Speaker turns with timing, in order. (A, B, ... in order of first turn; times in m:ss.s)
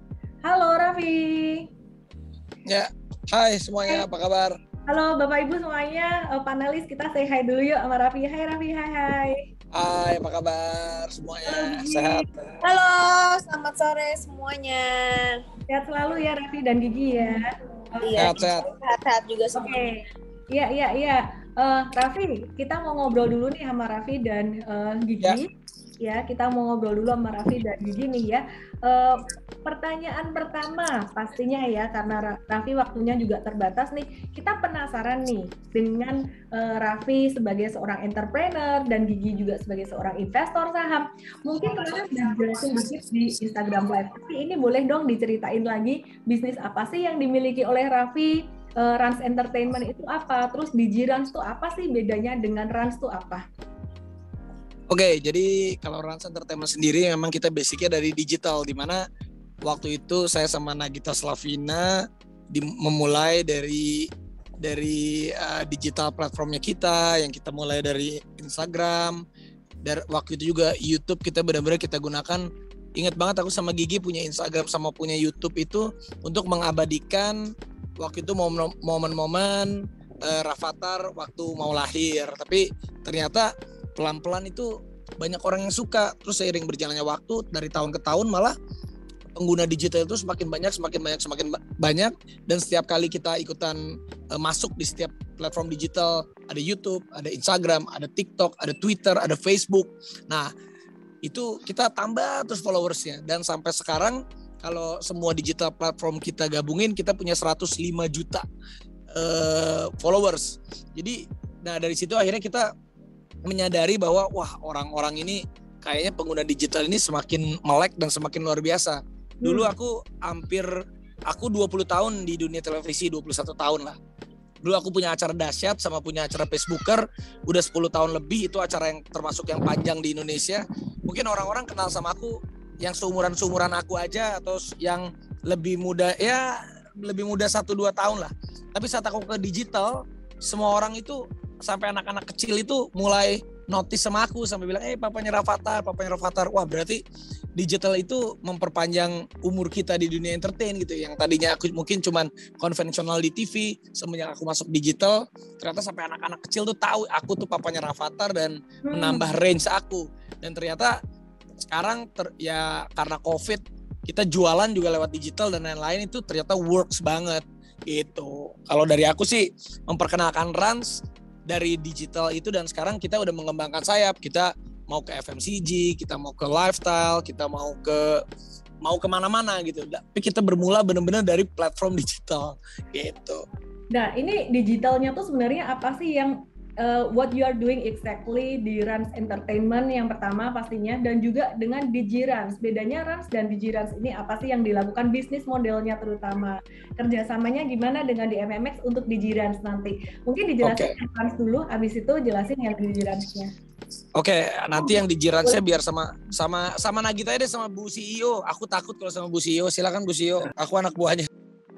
0:00.4-0:01.7 A
0:02.6-0:04.5 B
0:04.9-0:09.4 A
0:09.7-0:12.2 B
0:11.4-0:12.2 A
0:12.6-0:15.4 C
0:15.7-0:18.2 A
0:18.0-0:19.9 C
0:18.2-0:18.6 B
0:19.6-0:25.5 A
0:26.0-0:53.4 A
0:54.9-0:59.0 B
0:59.6-1:04.1 B
1:04.6-1:09.2 B
1:09.8-1:28.5 B
1:29.3-1:33.8 B
1:34.3-1:40.5 B
1:41.2-1:48.4 B
1:49.1-1:52.7 B
1:53.4-2:00.7 B
1:59.4-1:59.7 A
2:01.3-2:04.0 B
2:04.6-2:27.0 B
2:27.6-2:41.0 B
2:38.8-2:39.3 A
2:41.6-2:58.2 B
2:58.8-3:03.4 B
3:03.9-3:23.5 A
3:20.6-3:21.0 B
3:24.2-3:31.3 B